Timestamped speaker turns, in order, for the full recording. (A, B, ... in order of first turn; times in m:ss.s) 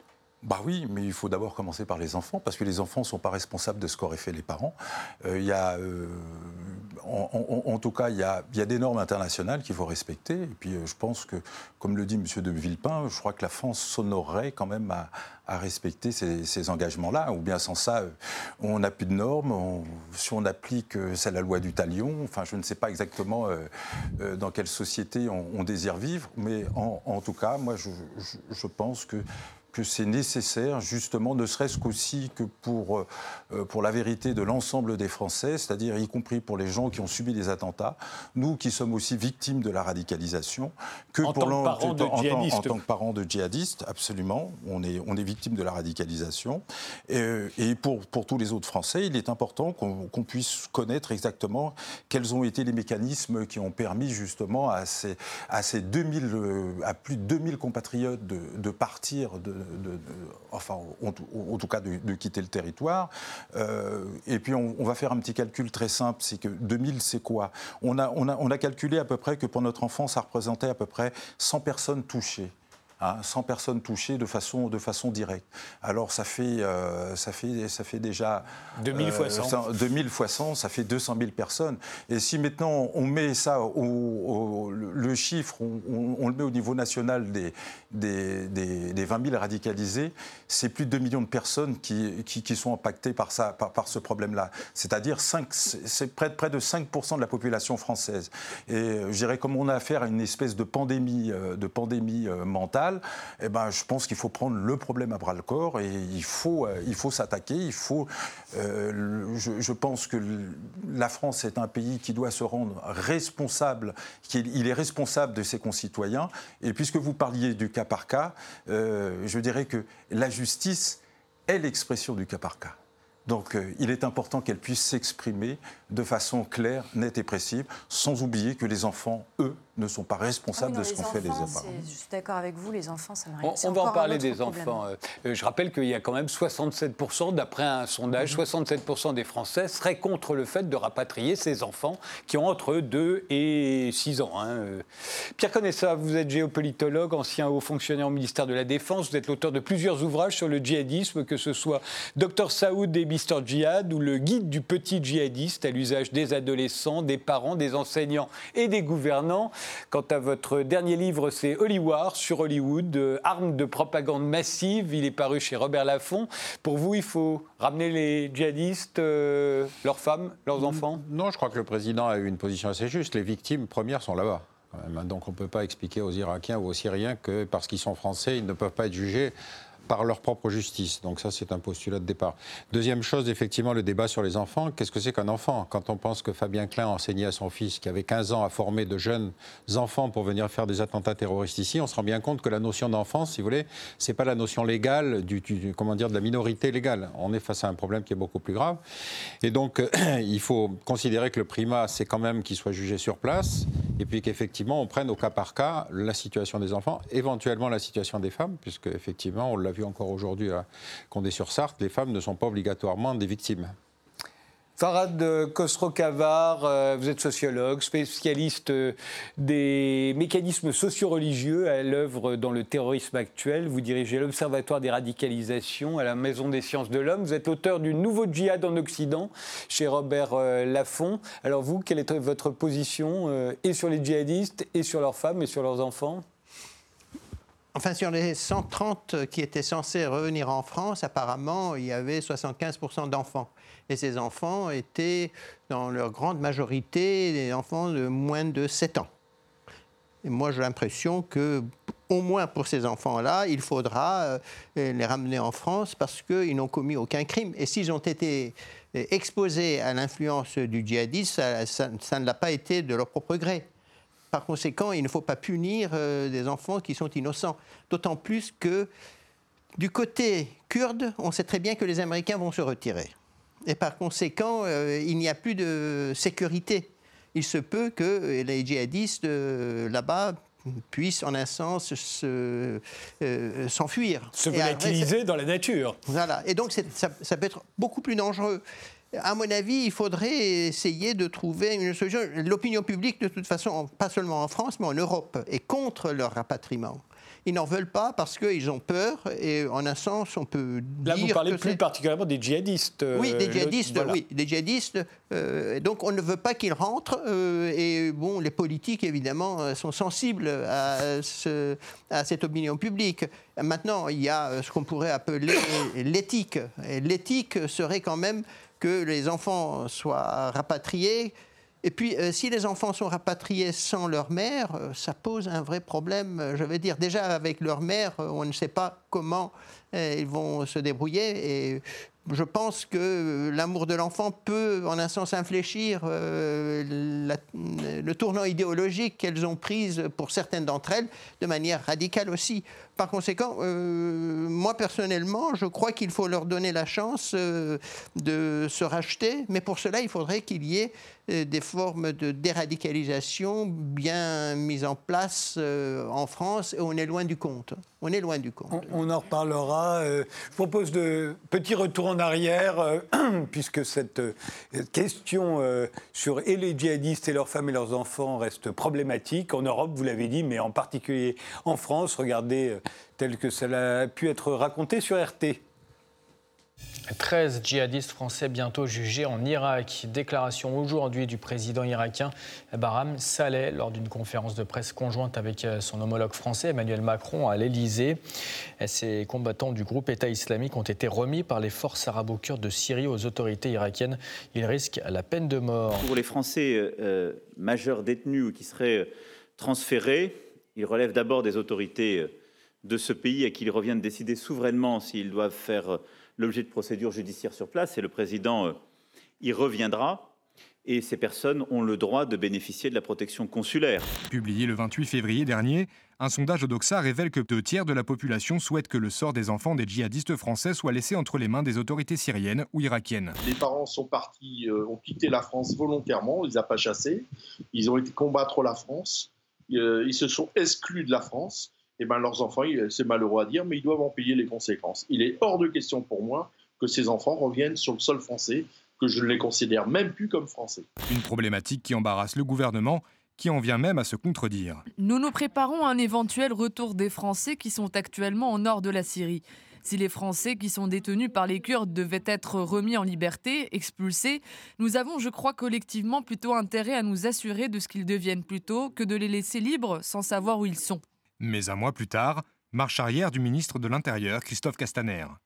0:00.4-2:11.8 A
0:41.2-0:42.8 B
1:18.8-1:19.6 B
2:10.5-2:14.8 C
2:13.4-2:24.8 B
2:25.4-2:51.0 B
2:50.6-2:59.4 D
2:59.9-3:18.8 D
3:19.4-3:33.8 D
3:34.8-3:56.2 B
3:57.8-4:09.1 E
4:10.2-4:23.7 E
4:24.3-4:28.9 E
4:29.8-4:33.1 E
4:33.7-4:45.1 E
4:44.4-4:46.0 B
4:46.1-4:48.6 E
4:49.1-5:01.8 E
5:01.0-5:04.2 B
5:03.2-5:58.8 E
5:58.7-6:15.6 B
6:17.1-6:28.2 F
6:28.8-6:36.1 F
6:36.0-6:48.8 G
6:49.4-6:50.3 G
6:50.8-6:54.2 G
6:54.3-7:03.4 H
7:03.4-7:20.9 I
7:21.1-7:24.8 H
7:25.0-7:41.0 J
7:41.4-7:45.4 H